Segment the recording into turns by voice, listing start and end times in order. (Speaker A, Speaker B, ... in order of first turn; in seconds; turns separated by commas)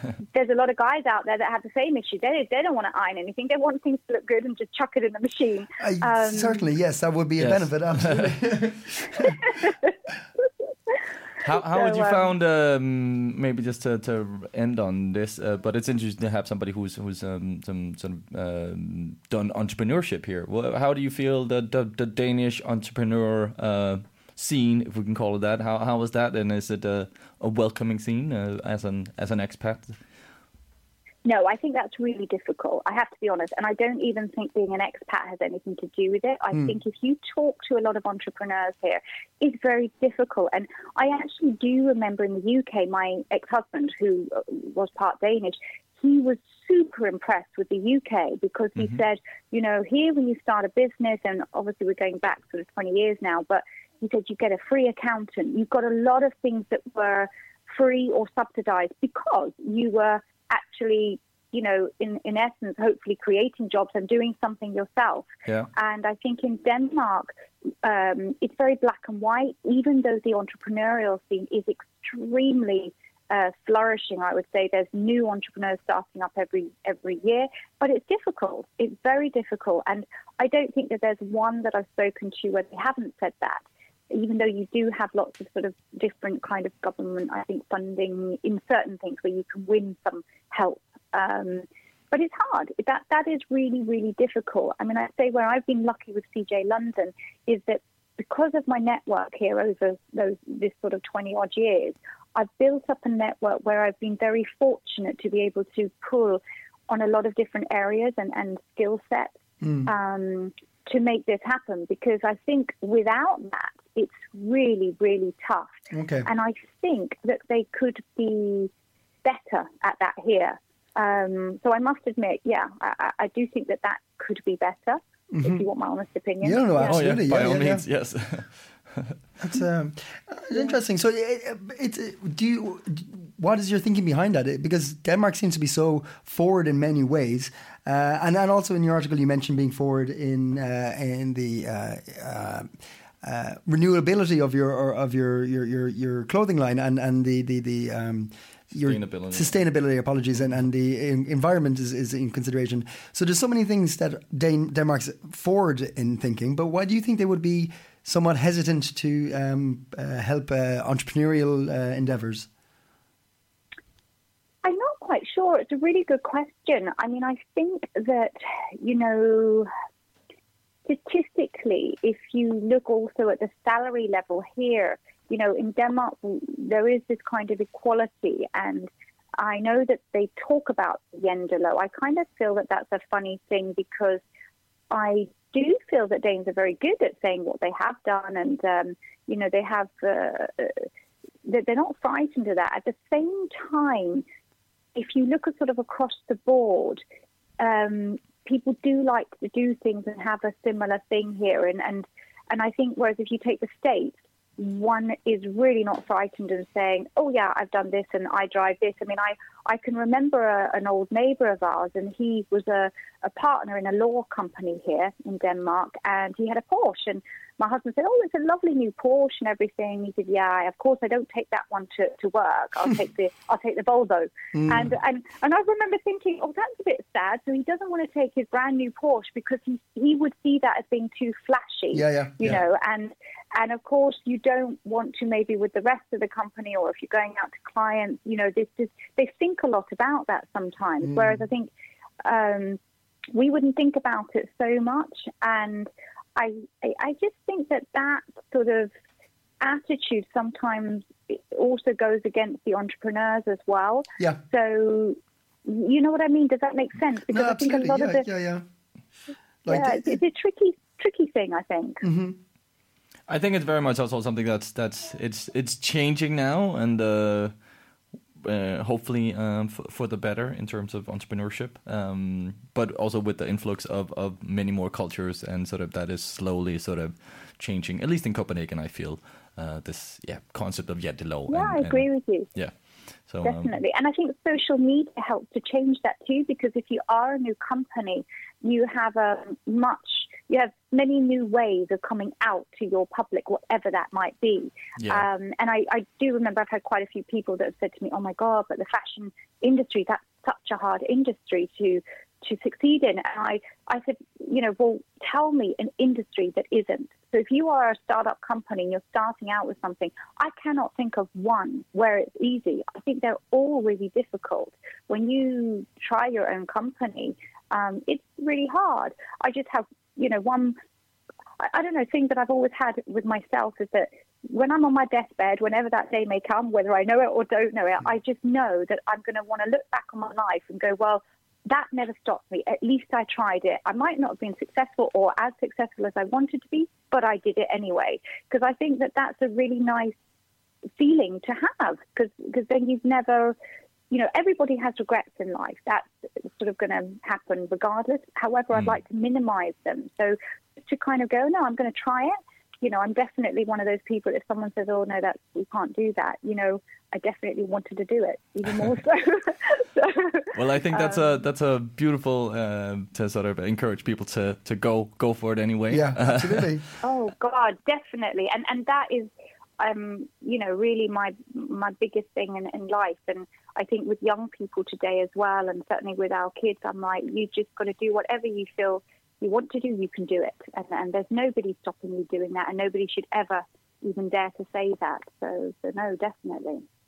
Speaker A: 0.3-6.7, Speaker B: 5.8-9.4, Speaker C: 7.4-8.3, Speaker A: 9.2-9.7, Speaker C: 11.4-29.9, Speaker A: 11.5-12.3, Speaker A: 31.2-118.7, Speaker B: 109.6-109.9, Speaker B: 115.9-116.3, Speaker A: 119.2-127.1, Speaker B: 125.3-125.7, Speaker B: 126.4-127.8, Speaker C: 126.9-129.1, Speaker B: 129.4-142.7, Speaker B: 143.2-162.5, Speaker C: 148.8-149.5, Speaker A: 164.6-169.7, Speaker A: 170.8-184.2, Speaker A: 184.9-190.9, Speaker A: 191.4-194.2, Speaker A: 194.9-197.0, Speaker A: 197.6-241.7, Speaker B: 224.5-224.9, Speaker B: 231.9-232.6, Speaker B: 241.0-241.4, Speaker A: 242.2-242.8, Speaker A: 243.3-248.9, Speaker A: 249.6-258.2, Speaker B: 257.3-258.6, Speaker B: 259.6-260.2, Speaker A: 259.7-262.0, Speaker B: 262.0-262.4, Speaker C: 263.3-267.5, Speaker C: 268.4-282.7, Speaker A: 281.5-282.5, Speaker C: 283.3-283.7, Speaker A: 283.4-320.8, Speaker A: 321.6-340.1, Speaker A: 341.0-343.6, Speaker A: 344.1-361.3, Speaker C: 360.5-366.8, Speaker B: 365.9-366.8, Speaker A: 367.0-386.8